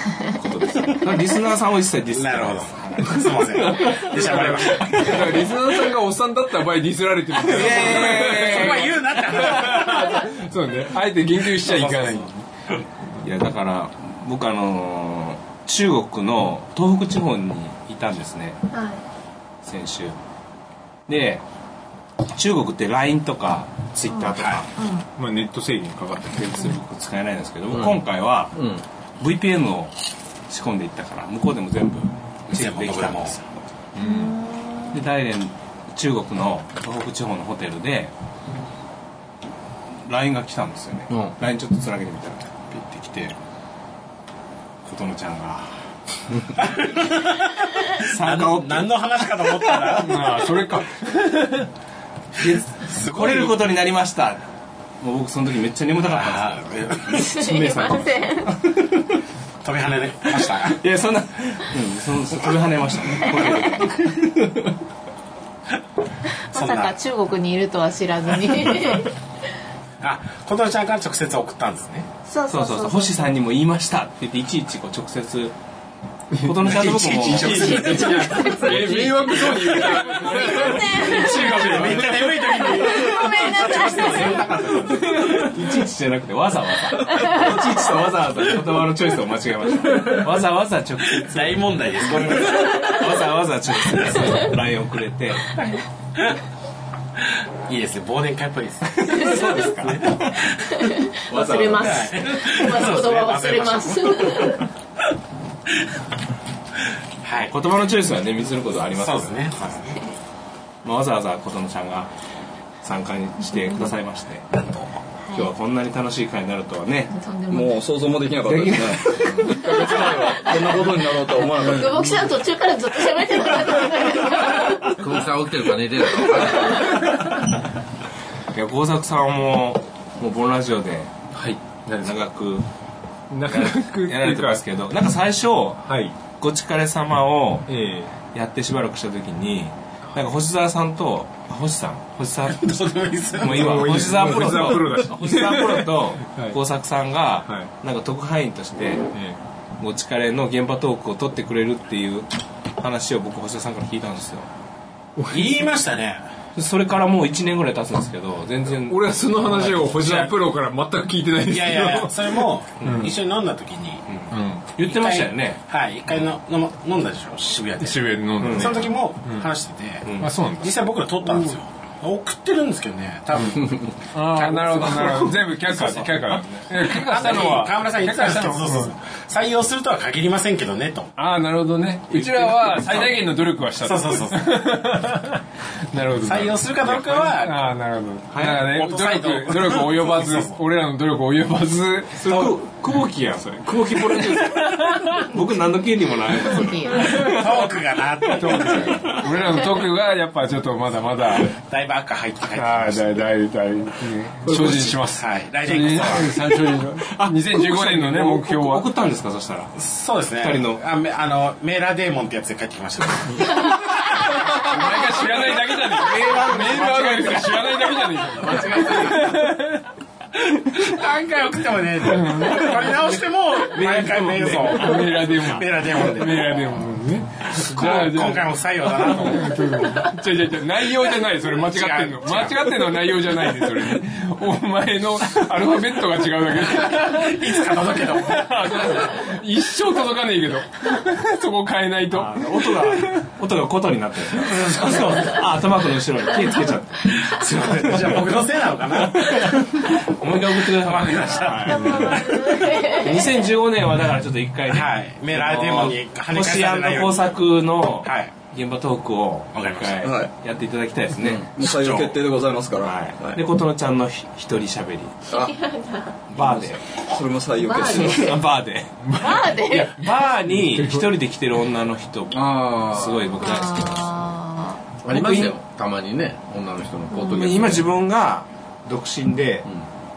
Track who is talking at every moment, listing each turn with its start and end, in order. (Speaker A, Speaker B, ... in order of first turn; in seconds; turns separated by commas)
Speaker A: 0.3-5.5, Speaker B: 2.1-5.3, Speaker C: 3.8-12.4, Speaker A: 7.4-9.9, Speaker B: 7.5-10.2, Speaker B: 11.6-12.3, Speaker A: 13.2-18.6, Speaker D: 18.7-19.0, Speaker A: 19.6-20.1, Speaker A: 21.1-21.4, Speaker A: 22.3-24.7, Speaker B: 24.4-24.6, Speaker D: 24.8-25.1, Speaker C: 25.2-26.7, Speaker A: 26.3-28.5, Speaker E: 27.7-28.0, Speaker E: 28.5-28.8, Speaker A: 29.2-29.9, Speaker A: 30.5-33.5, Speaker B: 32.5-33.4, Speaker C: 34.0-34.3, Speaker D: 34.0-34.9, Speaker A: 34.9-38.1, Speaker A: 40.1-43.3, Speaker A: 44.8-45.7, Speaker B: 46.7-47.2, Speaker A: 48.0-49.8, Speaker B: 48.0-50.5, Speaker C: 49.9-51.7, Speaker A: 52.4-54.4, Speaker B: 52.4-53.5, Speaker A: 55.0-59.0, Speaker B: 56.0-57.2, Speaker D: 57.2-58.6, Speaker B: 59.6-60.8, Speaker A: 60.6-64.7, Speaker D: 66.5-69.1, Speaker B: 66.5-67.0, Speaker B: 70.0-72.1, Speaker D: 72.3-73.2, Speaker A: 72.5-75.5, Speaker C: 76.3-82.4, Speaker A: 76.4-78.2, Speaker D: 77.5-78.9, Speaker E: 78.7-80.8, Speaker D: 79.6-81.7, Speaker B: 80.8-85.2, Speaker A: 81.4-82.0, Speaker D: 82.4-84.5, Speaker A: 83.8-91.6, Speaker D: 87.0-87.6, Speaker B: 91.2-93.2, Speaker A: 92.3-95.5, Speaker B: 97.7-104.6, Speaker A: 98.9-100.3, Speaker D: 99.1-99.6, Speaker D: 100.7-104.6, Speaker B: 107.2-107.5, Speaker A: 107.5-109.8, Speaker B: 108.9-109.8, Speaker A: 110.8-112.1, Speaker A: 112.8-114.5, Speaker B: 114.5-114.9, Speaker A: 115.3-117.1, Speaker D: 117.1-117.8, Speaker F: 117.5-122.1, Speaker A: 118.5-119.6, Speaker D: 119.3-125.1, Speaker E: 125.0-126.9, Speaker D: 126.3-127.0, Speaker C: 126.8-127.3, Speaker A: 128.5-131.2, Speaker C: 131.3-132.1, Speaker A: 132.0-132.7, Speaker C: 133.3-134.6, Speaker A: 133.5-135.8, Speaker C: 135.8-136.1, Speaker A: 136.3-137.7, Speaker C: 137.7-138.1, Speaker A: 138.3-142.7, Speaker B: 142.4-144.1, Speaker A: 143.4-149.0, Speaker C: 143.4-146.6, Speaker C: 149.1-149.4, Speaker A: 149.8-154.5, Speaker C: 155.2-155.7, Speaker B: 155.3-156.2, Speaker A: 156.6-160.3, Speaker C: 158.8-163.1, Speaker B: 161.5-164.1, Speaker A: 164.1-165.6, Speaker C: 164.3-164.6, Speaker B: 164.8-175.3, Speaker C: 167.8-169.5, Speaker A: 168.4-168.8, Speaker A: 170.0-170.3, Speaker C: 170.2-171.5, Speaker C: 174.1-178.9, Speaker A: 174.9-176.7, Speaker B: 176.8-181.1, Speaker C: 181.2-185.4, Speaker B: 182.6-183.2, Speaker B: 183.7-184.5, Speaker C: 185.9-192.3, Speaker B: 186.2-187.6, Speaker A: 188.3-188.6, Speaker B: 188.4-190.6, Speaker A: 192.1-194.6, Speaker C: 193.7-195.2, Speaker A: 195.2-197.3, Speaker D: 196.5-197.3, Speaker C: 196.9-197.7, Speaker B: 197.2-199.2, Speaker C: 198.3-201.5, Speaker B: 201.5-203.3, Speaker C: 202.5-208.9, Speaker B: 204.6-206.4, Speaker A: 207.0-209.7, Speaker B: 209.8-213.7, Speaker A: 210.3-210.8, Speaker C: 213.7-219.8, Speaker B: 214.5-219.3, Speaker A: 216.0-217.3, Speaker E: 218.4-219.2, Speaker B: 220.7-226.8, Speaker C: 222.0-243.2, Speaker B: 227.4-230.0, Speaker B: 231.6-232.8, Speaker B: 236.8-239.2, Speaker A: 242.1-248.4, Speaker B: 244.4-245.5, Speaker B: 247.2-249.9, Speaker A: 249.1-261.4, Speaker B: 250.8-252.7, Speaker D: 251.7-253.4, Speaker B: 254.7-257.3, Speaker B: 258.0-258.3, Speaker B: 259.5-260.1, Speaker F: 260.0-260.3, Speaker F: 261.5-263.4, Speaker B: 261.6-262.1, Speaker A: 262.8-265.1, Speaker F: 265.3-265.6, Speaker D: 265.3-266.2, Speaker A: 266.3-266.8, Speaker F: 266.3-268.4, Speaker D: 267.6-268.4, Speaker A: 267.8-269.1, Speaker C: 269.0-269.6, Speaker D: 269.2-270.1, Speaker A: 269.6-274.1, Speaker C: 270.5-271.1, Speaker E: 272.3-273.5, Speaker D: 273.4-274.8, Speaker E: 275.0-277.9, Speaker A: 275.1-275.6, Speaker A: 277.3-279.6